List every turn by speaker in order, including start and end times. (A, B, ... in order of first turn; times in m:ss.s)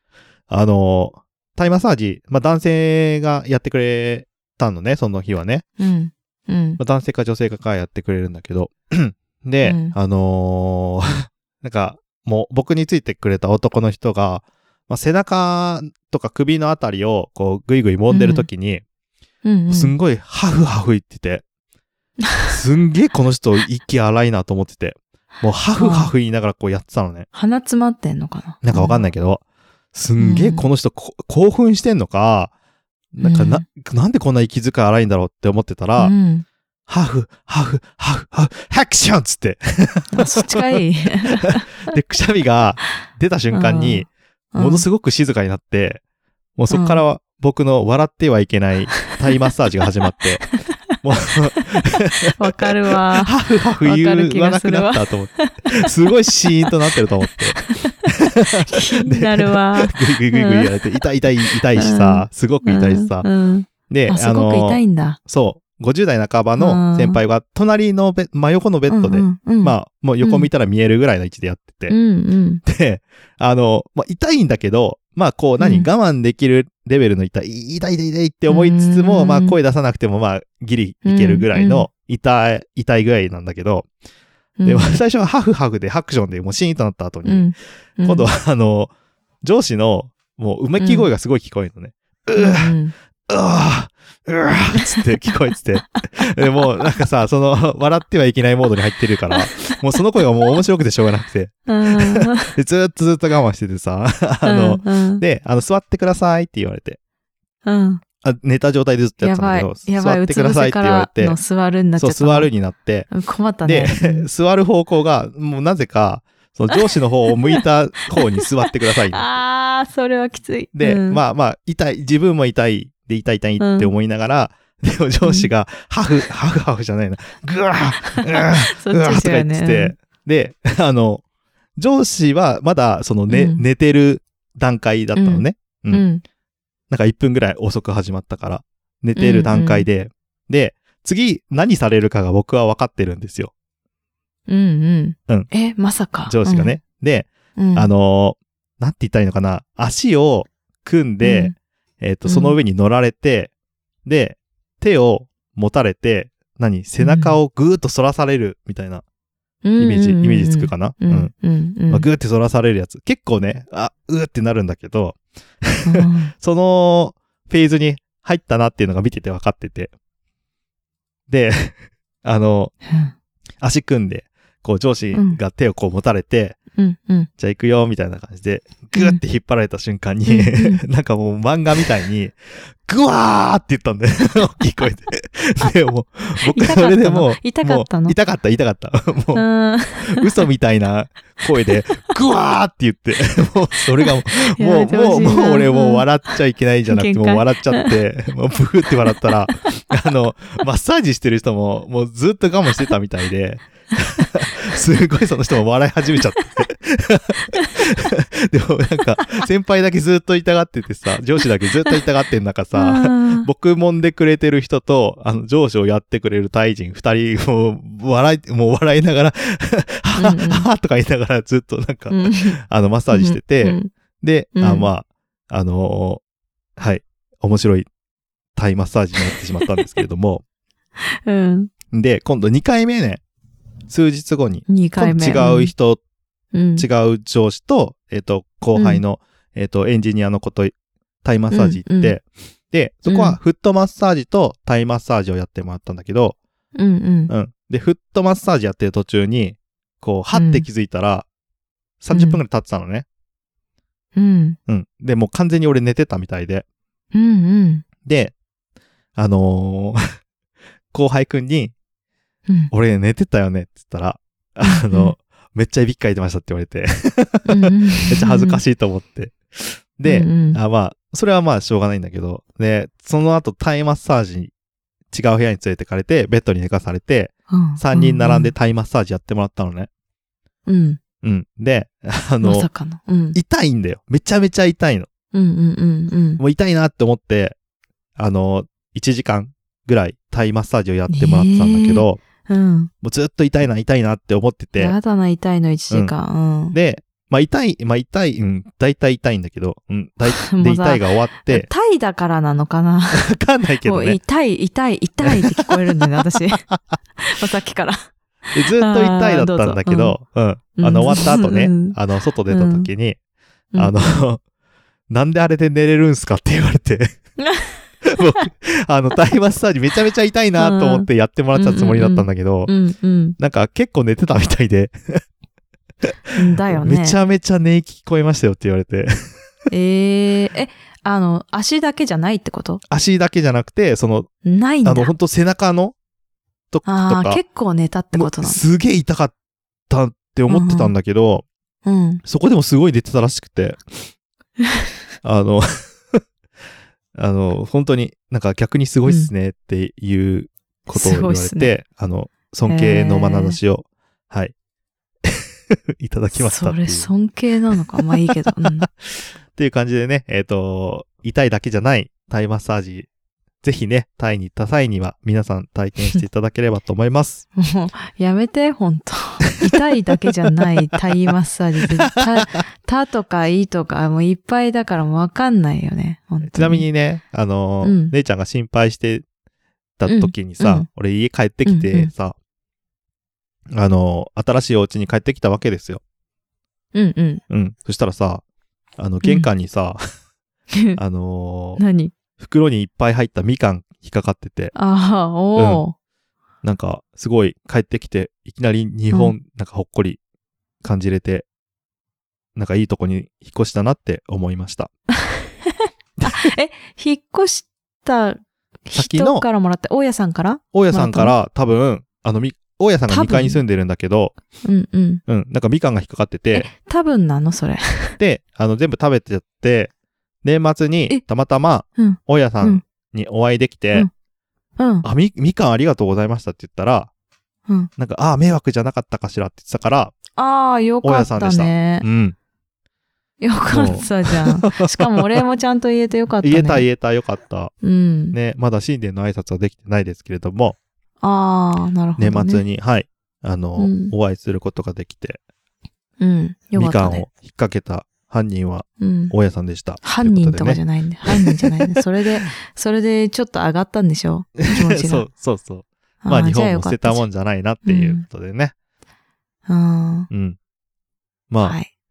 0:00.5-0:05.6 A
0:05.8-0:06.8 B
0:06.8-0:18.8 A
0:09.6-0:10.0 B
0:18.1-0:18.5 B
0:19.4-0:20.0 B
0:19.7-0:21.4 A
0:22.5-0:27.3 A
0:25.8-0:26.1 B
0:27.3-0:29.1 B
0:28.6-0:29.4 A
0:29.9-0:32.5 A
0:30.2-0:30.7 B
0:33.1-0:36.1 A
0:33.2-0:33.6 B
0:36.0-0:36.4 B
0:36.9-0:40.8 A
0:40.2-0:41.6 B
0:41.4-0:46.0 A
0:43.5-0:44.9 B
0:46.6-0:50.5 A
0:46.7-0:47.0 B
0:51.0-1:03.3 A
0:52.4-0:55.6 B
0:57.6-0:57.9 B
0:58.7-1:00.8 B
1:01.8-1:05.2 B
1:03.9-1:12.0 A
1:06.6-1:07.2 B
1:08.9-1:10.5 B
1:11.9-1:12.6 B
1:12.6-1:23.9 A
1:15.6-1:15.9 B
1:18.5-1:19.6 B
1:21.0-1:21.9 B
1:24.6-1:25.0 B
1:24.6-1:28.9 A
1:27.2-1:28.3 B
1:29.4-1:32.8 A
1:30.8-1:31.1 B
1:32.4-1:32.9 B
1:33.3-1:47.0 A
1:39.3-1:39.7 B
1:41.7-1:42.5 B
1:44.4-1:45.2 B
1:47.6-1:48.0 B
1:48.2-1:51.4 A
1:49.2-1:52.5 B
1:52.0-1:53.1 A
1:53.1-1:54.3 B
1:53.6-1:59.3 A
1:59.1-2:01.2 B
2:00.8-2:11.2 A
2:03.6-2:03.9 B
2:05.2-2:05.5 B
2:08.2-2:10.0 B
2:11.8-2:16.0 A
2:13.3-2:13.6 B
2:15.2-2:16.2 B
2:16.9-2:23.5 A
2:19.2-2:19.9 B
2:24.5-2:26.8 B
2:26.2-2:33.5 A
2:27.6-2:27.9 B
2:31.2-2:31.5 B
2:32.2-2:32.6 B
2:34.0-2:39.0 A
2:37.0-2:37.4 B
2:39.6-2:42.1 B
2:39.8-2:41.3 A
2:41.9-2:49.9 A
2:45.8-2:46.3 B
2:51.3-2:52.8 A
2:52.9-2:53.1 B
2:53.6-2:56.6 A
2:55.1-2:55.4 B
2:56.8-2:57.3 B
2:57.4-3:46.2 A
2:59.0-2:59.2 B
3:00.3-3:00.8 B
3:06.4-3:08.2 B
3:09.4-3:10.3 B
3:14.1-3:16.1 B
3:16.9-3:18.0 B
3:32.7-3:33.5 B
3:40.2-3:40.7 B
3:42.1-3:42.6 B
3:43.1-3:43.9 B
3:44.6-3:44.9 B
3:46.8-3:47.9 A
3:48.6-3:50.4 A
3:51.2-3:51.7 B
3:51.9-3:53.2 A
3:53.9-3:56.0 A
3:54.7-3:55.7 B
3:56.5-3:56.9 B
3:56.8-4:06.4 A
3:58.8-3:59.0 B
4:01.5-4:02.2 B
4:03.1-4:03.4 B
4:06.8-4:07.3 B
4:07.3-4:11.3 A
4:10.3-4:10.7 B
4:12.0-4:13.1 A
4:12.1-4:12.4 B
4:14.2-4:14.6 B
4:14.7-4:16.6 A
4:17.1-4:17.8 B
4:18.0-4:18.4 A
4:19.2-4:20.0 A
4:20.9-4:21.8 A
4:22.7-4:34.5 A
4:24.6-4:25.2 B
4:27.4-4:28.6 B
4:30.0-4:30.6 B
4:35.1-4:39.9 A
4:37.5-4:38.5 B
4:40.7-4:41.0 B
4:41.2-4:42.7 A
4:42.4-4:43.4 B
4:43.3-4:45.1 A
4:45.3-4:46.4 B
4:46.4-4:47.6 A
4:48.2-4:52.2 A
4:51.1-4:52.9 B
4:53.0-4:55.0 A
4:54.8-4:56.8 B
4:56.7-5:01.7 A
5:00.3-5:03.3 B
5:03.1-5:04.2 A
5:03.8-5:06.7 B
5:07.2-5:08.0 B
5:08.5-5:13.2 A
5:08.8-5:10.2 B
5:10.8-5:12.0 B
5:12.5-5:12.9 B
5:13.7-5:14.2 B
5:13.8-5:14.4 A
5:15.1-5:17.1 A
5:17.4-5:17.8 B
5:18.0-5:22.8 A
5:20.6-5:23.4 B
5:23.4-5:25.2 A
5:26.4-5:27.2 B
5:26.7-5:29.3 A
5:29.7-5:32.8 B
5:32.9-5:34.3 A
5:34.4-5:35.1 B
5:34.8-5:35.9 A
5:36.7-5:37.4 A
5:36.8-5:38.6 B
5:38.1-5:39.3 A
5:39.9-5:41.4 A
5:40.5-5:40.9 B
5:41.8-5:42.2 B
5:42.2-5:44.0 A
5:45.2-5:46.2 A
5:47.2-5:54.5 A
5:49.0-5:49.3 B
5:50.9-5:51.7 B
5:52.7-5:53.6 B
5:55.2-5:57.1 A
5:56.3-5:58.9 B
5:58.0-6:03.1 A
6:03.6-6:07.5 A
6:07.6-6:16.8 B
6:16.4-6:19.2 A
6:17.8-6:18.1 B
6:20.0-6:22.4 A
6:20.1-6:20.9 B
6:21.7-6:22.1 B
6:23.7-6:26.0 A
6:26.9-6:27.4 B
6:27.5-6:28.4 A
6:29.0-6:30.0 A
6:29.2-6:29.5 B
6:30.7-6:31.0 B
6:31.0-6:31.8 A
6:31.8-6:32.1 B
6:32.4-6:34.8 A
6:34.8-6:35.9 B
6:35.6-6:35.8 A
6:36.6-6:40.2 A
6:40.8-6:41.5 A
6:42.6-6:44.9 A
6:45.7-6:51.4 B
6:46.2-6:46.5 A
6:49.0-6:49.5 A
6:50.7-6:54.4 A
6:53.1-6:53.6 B
6:54.6-6:55.2 B
6:55.3-6:56.7 A
6:56.5-6:58.2 B
6:58.2-6:59.9 A
7:00.4-7:04.1 A
7:02.0-7:02.8 B
7:04.8-7:05.1 B
7:05.0-7:07.1 A
7:08.0-7:10.2 A
7:10.4-7:12.1 B
7:11.0-7:12.4 A
7:13.4-7:16.9 B
7:13.7-7:15.4 A
7:16.4-7:17.8 A
7:17.8-7:18.4 B
7:18.3-7:20.8 A
7:21.2-7:22.6 B
7:22.2-7:25.4 A
7:23.8-7:24.1 B
7:26.2-7:27.3 B
7:26.8-7:32.0 A
7:29.0-7:29.3 B
7:30.0-7:35.3 B
7:34.6-7:38.7 A
7:36.2-7:37.2 B
7:37.8-7:38.2 B
7:39.7-7:40.3 B
7:40.3-7:40.6 A
7:41.5-7:41.8 A
7:41.6-7:41.9 B